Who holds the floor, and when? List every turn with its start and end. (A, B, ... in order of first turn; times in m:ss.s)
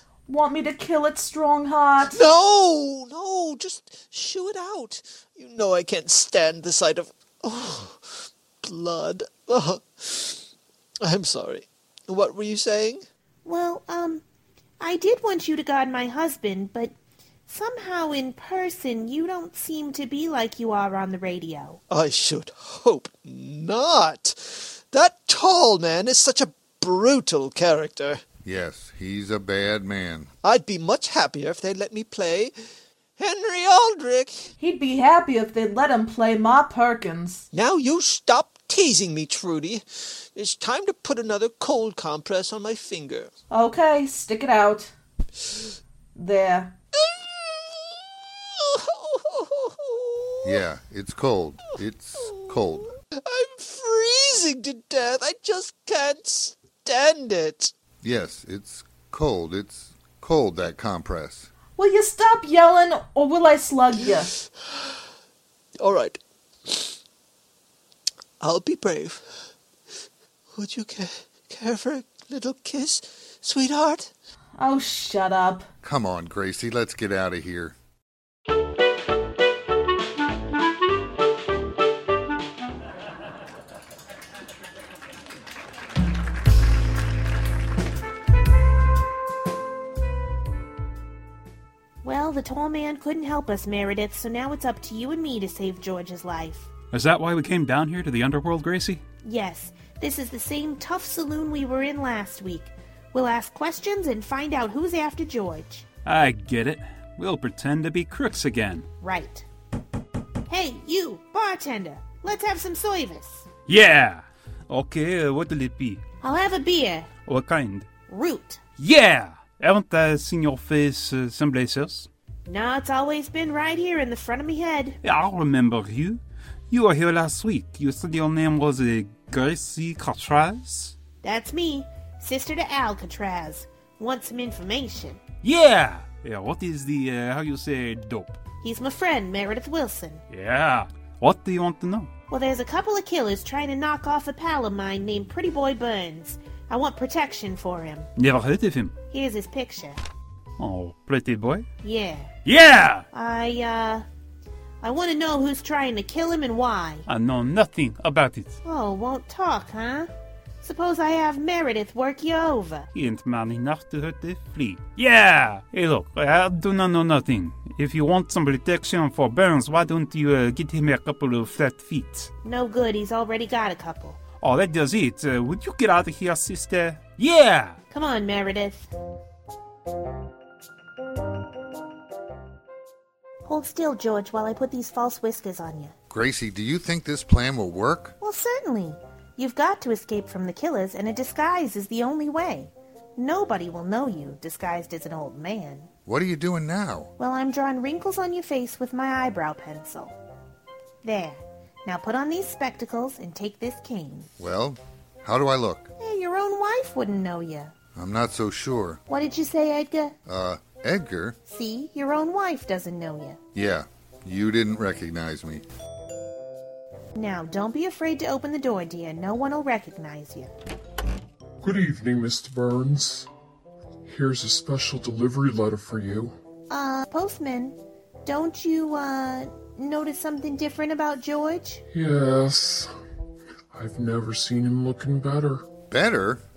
0:00.3-0:02.2 A
0:02.1-0:10.5 B
0:11.0-0:13.0 B
0:13.4-0:14.2 C
0:14.8-0:16.9 C
0:17.5-0:21.8 C
0:21.9-0:28.2 B
0:28.4-0:30.3 D
0:30.4-0:32.5 B
0:33.2-0:34.5 B
0:34.6-0:37.5 A
0:37.5-0:43.3 B
0:43.5-0:44.9 A
0:46.2-0:46.8 A
0:47.0-0:50.6 B
0:50.4-0:52.9 D
0:53.2-0:57.7 B
0:58.0-1:01.5 D
1:01.8-1:04.3 A
1:04.6-1:04.9 B
1:05.8-1:07.0 B
1:08.4-1:09.5 B
1:10.5-1:14.1 B
1:14.6-1:15.7 A
1:15.8-1:17.8 D
1:32.0-1:36.7 C
1:36.9-1:39.0 E
1:39.2-1:45.8 C
1:46.0-1:48.9 E
1:49.0-1:49.4 C
1:50.5-1:53.5 C
1:53.7-1:56.0 E
1:56.2-1:57.1 C
1:57.3-1:57.9 E
1:58.1-1:58.6 C
1:58.8-2:02.1 E
2:02.5-2:05.0 C
2:05.0-2:10.9 E
2:11.2-2:15.2 C
2:15.4-2:18.4 E
2:18.6-2:20.2 C
2:20.3-2:22.1 E
2:22.3-2:28.1 C
2:28.2-2:28.9 E
2:29.1-2:30.0 C
2:30.6-2:31.6 E
2:31.8-2:32.3 C
2:32.4-2:33.1 E
2:33.1-2:34.0 C
2:34.8-2:37.1 C
2:37.1-2:38.6 E
2:38.6-2:40.1 C
2:40.6-2:42.9 C
2:42.9-2:52.3 E
2:52.4-2:54.2 C
2:54.4-2:57.8 E
2:57.9-2:58.9 C
3:03.4-3:06.0 C
3:06.1-3:08.1 D
3:08.2-3:15.9 C
3:16.1-3:17.1 D
3:17.2-3:20.2 C
3:21.0-3:24.3 C
3:24.4-3:25.9 D
3:26.0-3:27.7 C
3:28.0-3:29.0 D
3:29.1-3:30.2 C
3:30.3-3:31.4 D
3:31.5-3:33.4 C
3:33.5-3:35.6 D
3:37.2-3:40.5 C
3:41.6-3:43.3 F
3:44.0-3:46.4 F
3:46.7-3:51.8 C
3:51.9-3:52.9 F
3:53.7-3:55.7 F
3:55.9-3:56.4 D